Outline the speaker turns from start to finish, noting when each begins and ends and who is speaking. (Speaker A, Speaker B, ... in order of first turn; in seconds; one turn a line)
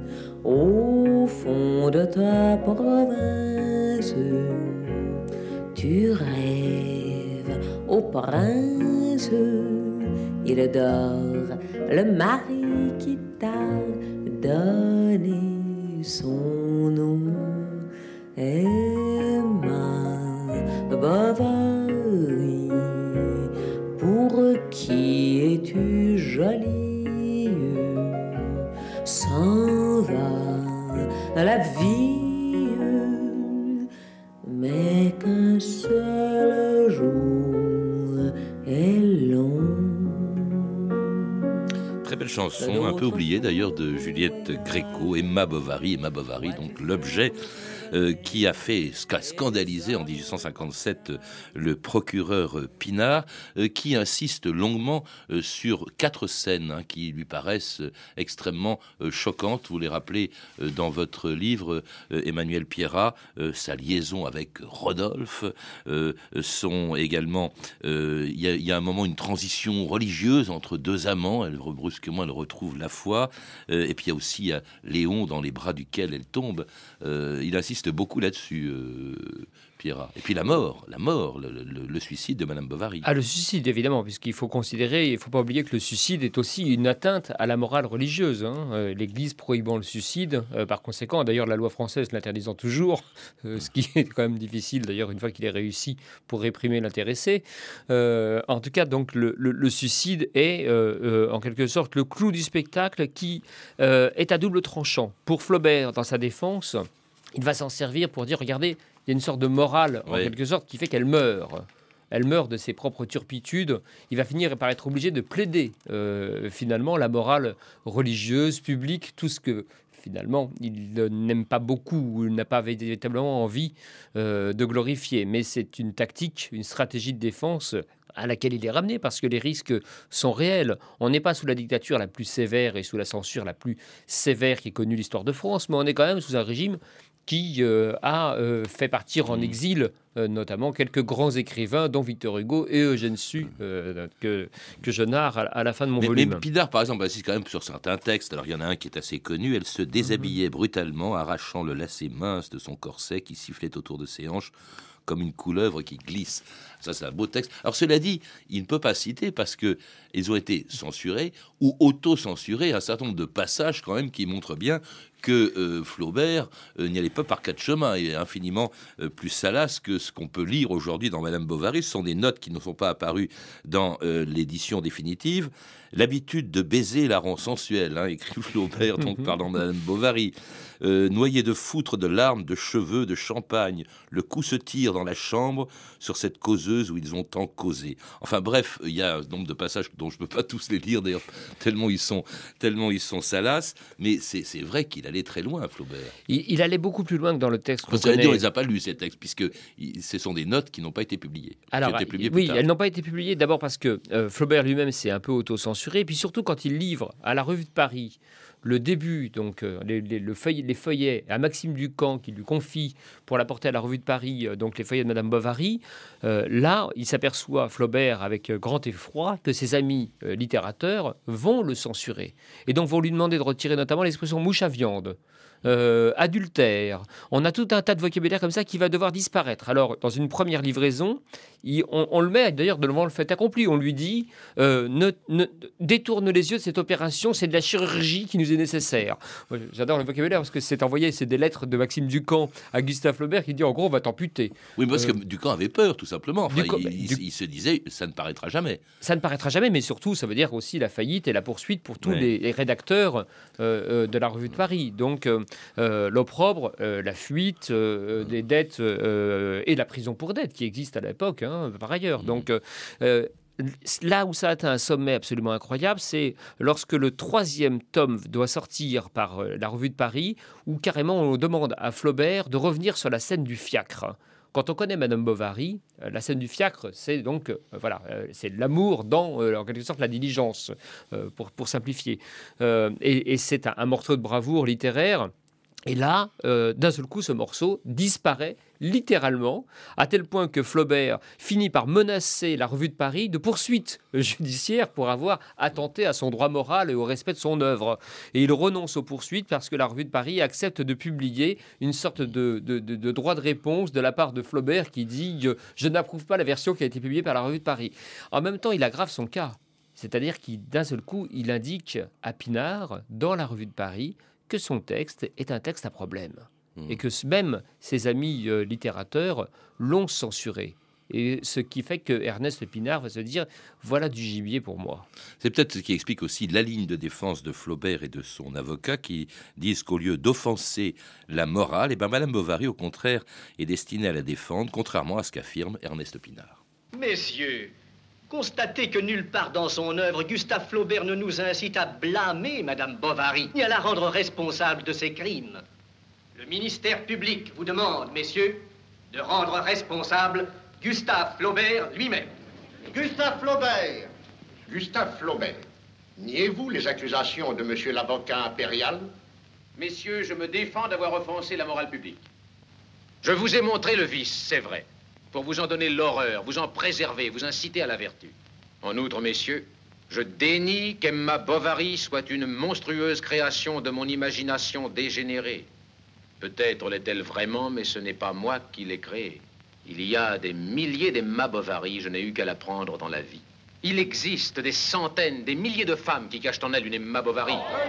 Speaker A: 0.4-5.2
Speaker A: 5.7-33.8
Speaker A: 34.4-40.9
Speaker B: 42.0-83.0
Speaker A: 42.6-43.3
Speaker C: 83.0-146.4
Speaker B: 110.1-110.3
Speaker B: 139.3-139.6
Speaker B: 146.0-154.5
Speaker B: 155.1-196.1
Speaker C: 196.3-198.4
Speaker B: 197.9-202.6
Speaker C: 201.7-245.2
Speaker B: 244.8-248.8
Speaker C: 246.5-247.2
Speaker C: 249.0-285.3
Speaker B: 252.0-252.3
Speaker B: 262.2-262.4
Speaker C: 285.9-325.1
Speaker B: 325.4-336.6
Speaker D: 336.9-337.7
Speaker D: 338.3-345.6
Speaker D: 346.4-352.3
Speaker E: 352.9-354.1
Speaker E: 354.7-355.6
Speaker E: 356.2-359.1
Speaker F: 359.8-362.2
Speaker F: 363.2-375.7
Speaker F: 376.4-387.7